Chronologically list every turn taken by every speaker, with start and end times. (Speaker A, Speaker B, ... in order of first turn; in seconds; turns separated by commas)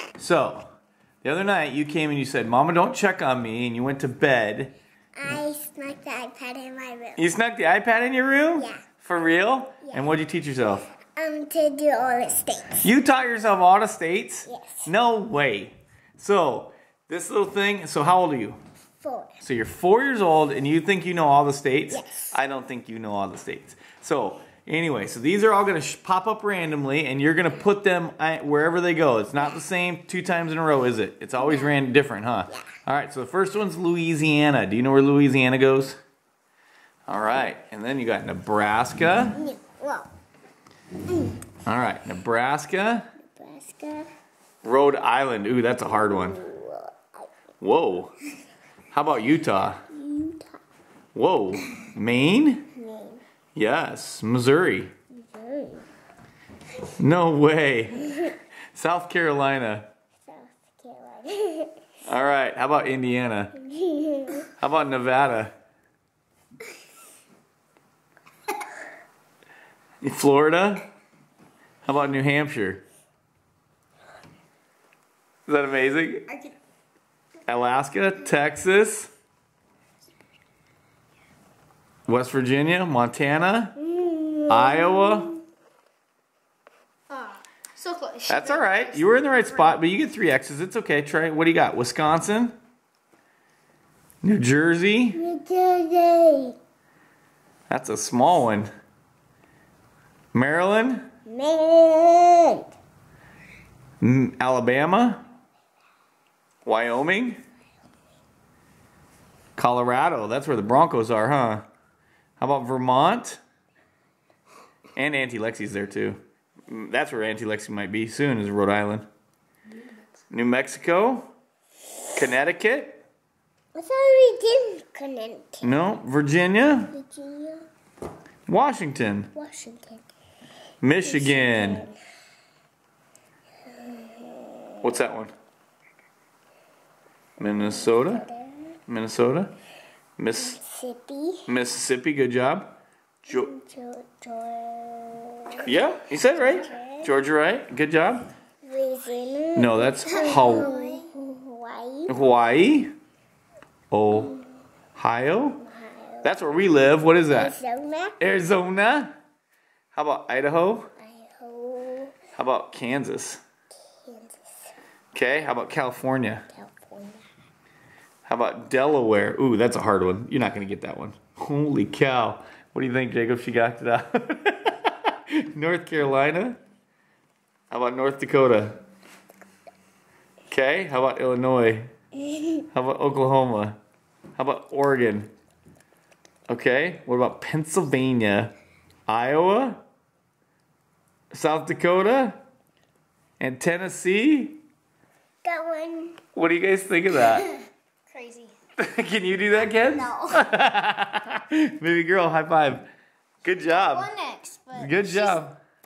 Speaker A: 0.2-0.7, Speaker A: 1.2-4.7, Speaker B: 5.2-7.2, Speaker A: 7.2-10.9, Speaker B: 8.6-8.8, Speaker B: 11.1-12.9, Speaker A: 12.8-18.6, Speaker B: 14.5-14.8, Speaker B: 19.0-19.4, Speaker A: 19.4-36.0, Speaker B: 21.9-22.3, Speaker B: 31.4-31.7, Speaker A: 37.1-39.4, Speaker B: 39.4-40.1, Speaker A: 41.6-43.1, Speaker B: 43.2-44.1, Speaker A: 44.6-46.4, Speaker B: 45.9-47.3, Speaker A: 47.6-48.1, Speaker A: 48.9-49.8, Speaker B: 49.9-50.6, Speaker A: 51.1-52.7, Speaker B: 52.7-53.2, Speaker A: 53.5-54.9, Speaker B: 55.2-55.9, Speaker A: 57.0-59.9, Speaker B: 60.2-61.8, Speaker A: 62.1-63.5, Speaker B: 63.6-64.4, Speaker A: 64.4-65.5, Speaker A: 70.0-70.8, Speaker A: 71.8-72.8, Speaker A: 75.5-76.3, Speaker A: 77.5-79.1, Speaker A: 82.0-83.8, Speaker B: 83.8-85.4, Speaker A: 84.5-85.3, Speaker C: 87.1-89.1, Speaker A: 88.3-92.5, Speaker A: 94.2-95.2, Speaker B: 95.1-96.5, Speaker A: 97.7-98.7, Speaker A: 100.3-101.1, Speaker B: 101.3-102.7, Speaker A: 104.0-105.2, Speaker A: 106.6-107.4, Speaker A: 109.5-111.6, Speaker A: 112.4-113.4, Speaker A: 115.0-119.1, Speaker A: 120.3-121.3, Speaker A: 122.1-123.0, Speaker B: 123.7-125.7, Speaker A: 125.6-126.9, Speaker B: 126.9-127.6, Speaker A: 128.5-129.3, Speaker B: 129.3-130.0, Speaker A: 130.8-131.8, Speaker B: 131.0-132.0, Speaker B: 133.7-134.9, Speaker A: 134.8-135.3, Speaker A: 137.4-138.2, Speaker B: 137.6-138.8, Speaker A: 138.9-139.5, Speaker A: 140.2-140.6, Speaker B: 140.4-141.5, Speaker A: 141.4-142.7, Speaker A: 143.2-143.5, Speaker B: 143.3-147.1, Speaker A: 145.6-148.2, Speaker B: 148.6-152.1, Speaker A: 149.6-150.7, Speaker C: 150.2-151.1, Speaker A: 152.1-152.9, Speaker A: 153.9-154.4, Speaker A: 154.9-155.6, Speaker B: 155.7-156.3, Speaker A: 156.2-157.5, Speaker B: 157.3-158.2, Speaker A: 158.2-159.1, Speaker A: 159.9-160.9, Speaker B: 161.0-162.2, Speaker A: 162.3-163.4, Speaker B: 163.9-164.7, Speaker A: 165.1-166.5, Speaker B: 166.5-167.2, Speaker A: 168.2-176.6, Speaker A: 177.7-178.8, Speaker A: 180.5-181.9, Speaker A: 182.7-183.8, Speaker A: 184.3-185.3, Speaker A: 186.5-188.5, Speaker A: 189.1-189.8, Speaker A: 191.3-192.4, Speaker A: 193.4-194.6, Speaker B: 195.4-196.2, Speaker A: 196.3-197.5, Speaker C: 198.1-198.5, Speaker A: 198.8-202.8, Speaker B: 199.9-200.4, Speaker A: 203.4-204.1, Speaker C: 203.5-205.4, Speaker A: 204.7-205.6